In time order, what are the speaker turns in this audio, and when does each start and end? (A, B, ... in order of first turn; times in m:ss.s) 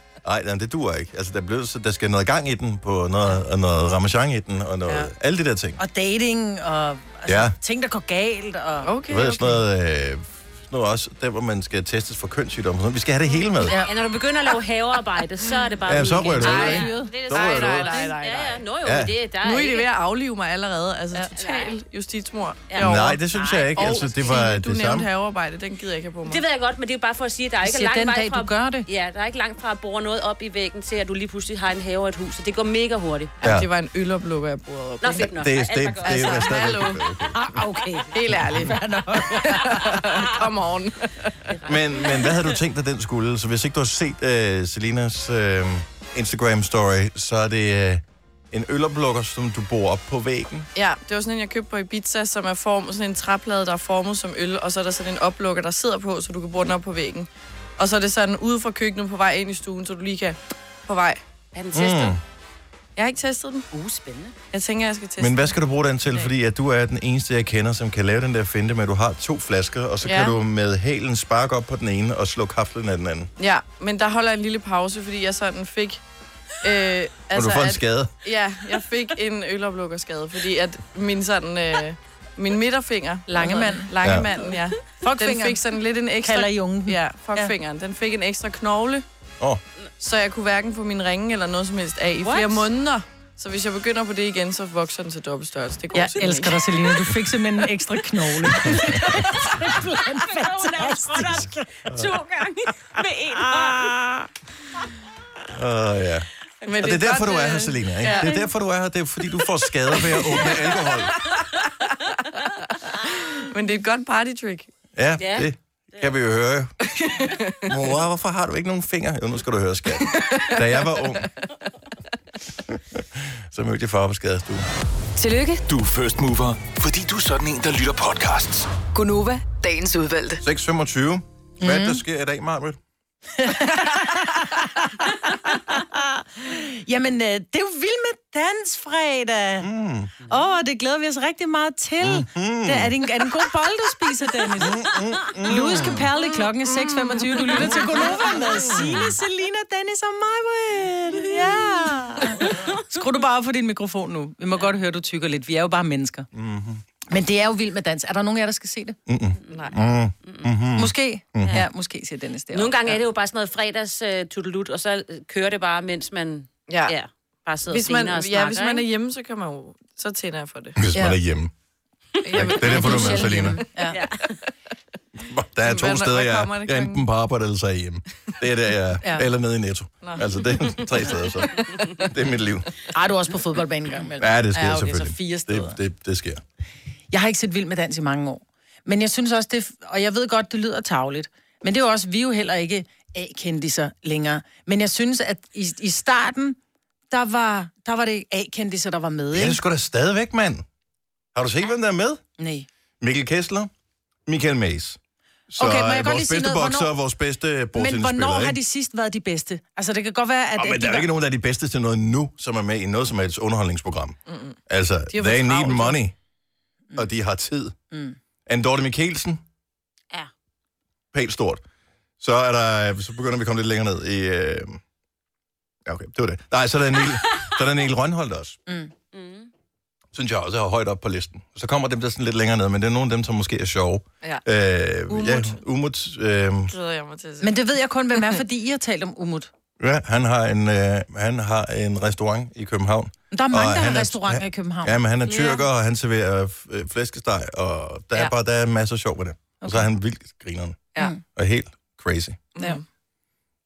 0:00.2-0:05.8 A
0:05.8-0:08.9 B
0:07.3-0:07.5 A
0:08.8-0:09.6 C
0:09.1-0:13.8 A
0:13.6-0:13.9 B
0:13.6-0:19.9 D
0:15.8-0:17.9 A
0:16.4-0:18.6 C
0:16.4-0:17.1 B
0:18.8-0:19.1 A
0:19.4-0:23.2 C
0:21.3-0:21.8 D
0:22.7-0:24.2 D
0:22.8-0:25.1 A
0:23.7-0:26.4 C
0:26.2-0:33.3 D
0:27.6-0:28.9 B
0:33.4-0:35.3 C
0:33.4-0:33.7 A
0:35.0-0:36.8 D
0:35.2-0:37.5 A
0:36.0-0:37.1 C
0:37.3-0:40.3 B
0:38.1-0:38.8 C
0:39.7-0:41.3 C
0:41.5-0:42.5 D
0:41.6-0:50.7 A
0:50.7-1:01.2 C
1:01.5-1:02.2 D
1:01.7-1:02.2 A
1:03.0-1:03.7 C
1:03.7-1:04.3 D
1:04.5-1:05.6 C
1:05.2-1:13.3 A
1:10.0-1:10.4 C
1:13.4-1:16.0 C
1:16.6-1:29.0 C
1:17.3-1:18.1 A
1:23.3-1:25.6 B
1:24.0-1:24.3 A
1:26.2-1:27.5 B
1:30.0-1:36.9 C
1:32.2-1:32.7 D
1:35.9-1:41.7 B
1:38.8-1:44.0 D
1:43.5-1:44.2 C
1:45.5-1:51.1 A
1:46.6-1:48.4 C
1:48.1-1:48.4 D
1:50.0-1:51.0 C
1:53.3-1:54.7 C
1:55.0-1:56.7 A
1:55.2-1:56.1 D
1:57.0-1:57.7 C
1:57.7-2:01.3 A
2:02.7-2:04.6 A
2:05.2-2:05.6 E
2:05.6-2:08.7 F
2:08.9-2:10.4 E
2:10.4-2:12.8 A
2:11.6-2:12.0 B
2:13.4-2:19.7 B
2:19.6-2:20.1 A
2:20.3-2:24.8 B
2:22.0-2:22.9 A
2:24.6-2:26.0 A
2:25.4-2:36.3 B
2:36.3-2:36.8 A
2:37.1-2:39.0 B
2:39.1-2:41.6 A
2:39.5-2:40.5 D
2:40.8-2:43.0 B
2:42.5-2:48.9 D
2:46.7-2:46.9 C
2:47.7-2:51.2 C
2:50.8-2:51.5 A
2:52.2-2:53.6 C
2:52.3-2:54.3 D
2:52.3-2:53.6 A
2:52.7-2:54.0 B
2:55.2-3:02.7 A
2:55.6-2:57.1 C
3:00.0-3:00.8 C
3:01.6-3:02.0 C
3:02.9-3:05.8 B
3:04.2-3:06.4 A
3:07.1-3:16.6 B
3:17.1-3:19.6 B
3:19.3-3:20.6 A
3:21.3-3:22.2 A
3:22.4-3:22.7 B
3:23.0-3:23.7 A
3:24.3-3:25.0 A
3:25.5-3:28.6 A
3:25.6-3:26.9 B
3:27.7-3:31.1 B
3:30.6-3:36.1 A
3:34.3-3:34.6 C
3:35.1-3:36.0 C
3:36.9-3:37.7 A
3:37.9-3:38.2 B
3:38.5-3:39.4 A
3:41.1-3:41.6 A
3:42.2-3:44.8 A
3:45.8-3:48.6 A
3:48.7-3:48.9 B
3:49.1-3:49.5 D
3:50.1-3:56.7 A
3:55.1-3:55.6 C
3:56.7-3:57.6 C
3:57.4-3:59.5 B
3:59.8-4:12.5 A
4:03.3-4:05.0 B
4:05.3-4:05.6 C
4:09.6-4:09.9 B
4:12.5-4:12.8 C